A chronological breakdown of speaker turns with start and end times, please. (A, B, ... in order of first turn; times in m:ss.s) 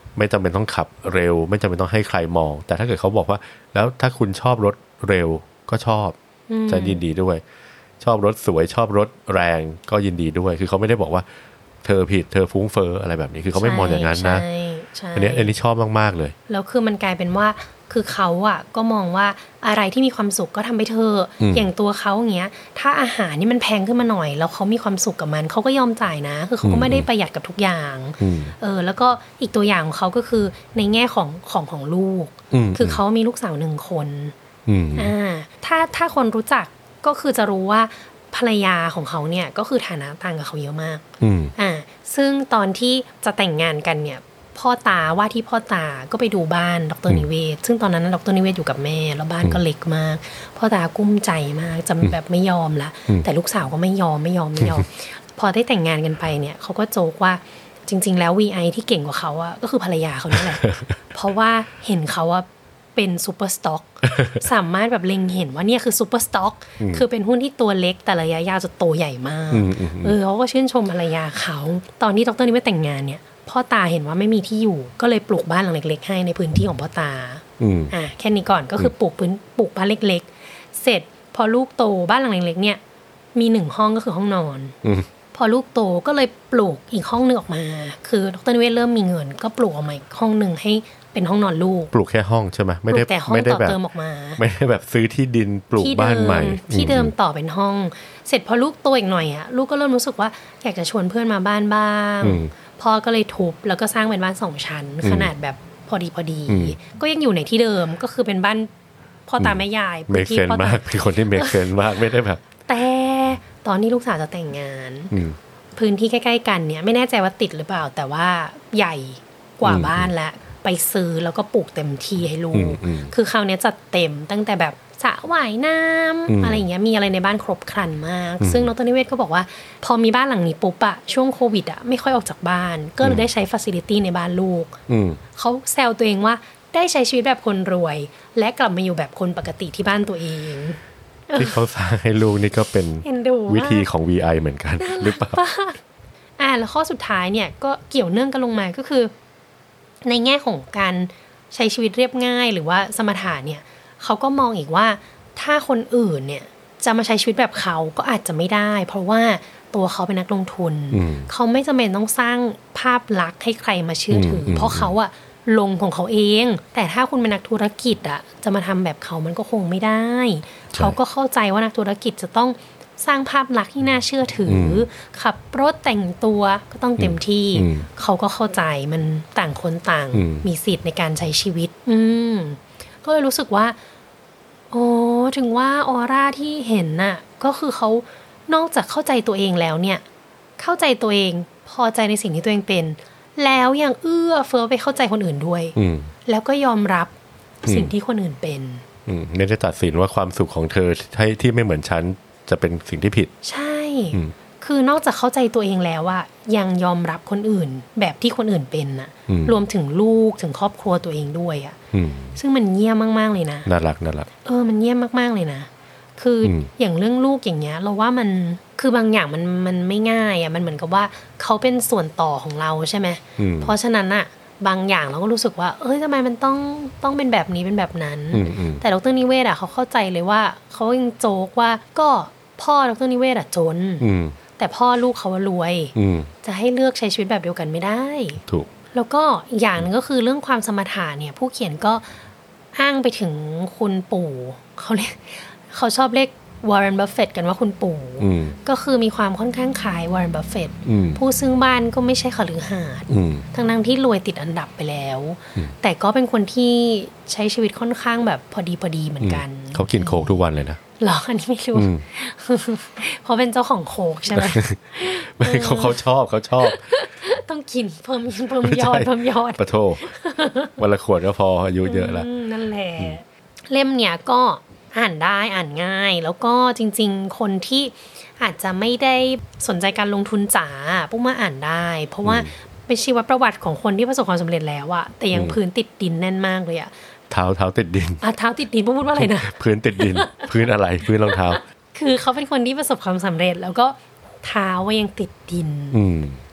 0:00.2-0:06.2 A
0:06.5-0:07.0 B
0:06.7-0:07.4 A
0:08.0-0:11.2 A
0:11.8-0:14.4 A
0:13.5-0:15.5 B
0:15.2-0:16.4 A
0:16.5-0:34.3 B
0:21.4-0:21.7 A
0:26.6-0:27.1 A
0:28.2-0:28.5 A
0:32.5-0:33.0 A
0:34.7-0:35.1 A
0:35.0-1:22.8 B
0:41.2-0:41.5 A
1:09.5-1:10.2 A
1:17.6-1:17.9 A
1:23.4-1:24.8 B
1:25.3-1:31.9 B
1:31.9-1:33.8 A
1:32.9-1:34.4 B
1:34.4-1:37.1 A
1:35.8-1:48.7 B
1:42.2-1:42.5 A
1:45.0-1:45.3 A
1:46.5-1:46.8 A
1:49.3-1:51.7 B
1:49.4-1:52.4 A
1:52.6-1:55.1 B
1:55.1-1:55.4 A
1:55.8-2:14.8 B
1:59.6-2:00.1 A
2:02.5-2:03.1 A
2:06.3-2:06.6 A
2:08.4-2:08.7 A
2:14.9-2:15.2 A
2:15.3-2:21.6 B
2:21.4-2:25.4 A
2:23.0-2:23.9 B
2:24.8-2:25.8 B
2:26.4-2:29.1 B
2:30.0-3:03.8 B
2:40.9-2:41.3 A
2:44.1-2:44.9 A
2:54.5-2:54.9 A
2:57.0-2:57.9 A
3:00.1-3:00.5 A
3:04.7-3:10.0 B
3:10.6-3:17.1 B
3:15.8-3:16.1 A
3:17.6-3:18.8 B
3:17.7-3:17.9 A
3:19.1-3:23.3 A
3:23.4-3:31.8 B
3:29.3-3:29.6 A
3:31.9-3:32.4 A
3:32.4-3:33.7 B
3:33.7-3:34.3 A
3:34.4-3:54.1 B
3:36.4-3:36.7 A
3:43.4-3:43.8 A
3:48.3-3:48.8 A
3:54.0-3:54.4 A
3:54.6-3:58.4 B
3:56.0-3:56.3 A
3:59.0-4:02.1 B
4:02.8-4:20.3 B
4:08.2-4:08.6 A
4:10.9-4:11.2 A
4:13.1-4:13.5 A
4:19.2-4:20.8 A
4:21.0-4:26.0 B
4:21.7-4:22.0 A
4:24.4-4:26.8 A
4:26.6-4:30.8 B
4:28.6-4:30.1 A
4:30.8-4:32.3 A
4:31.8-4:46.9 B
4:42.2-4:42.5 A
4:45.3-4:45.6 A
4:47.3-4:48.2 A
4:48.2-4:50.5 B
4:49.2-4:51.6 A
4:51.2-4:56.0 B
4:55.9-4:56.4 A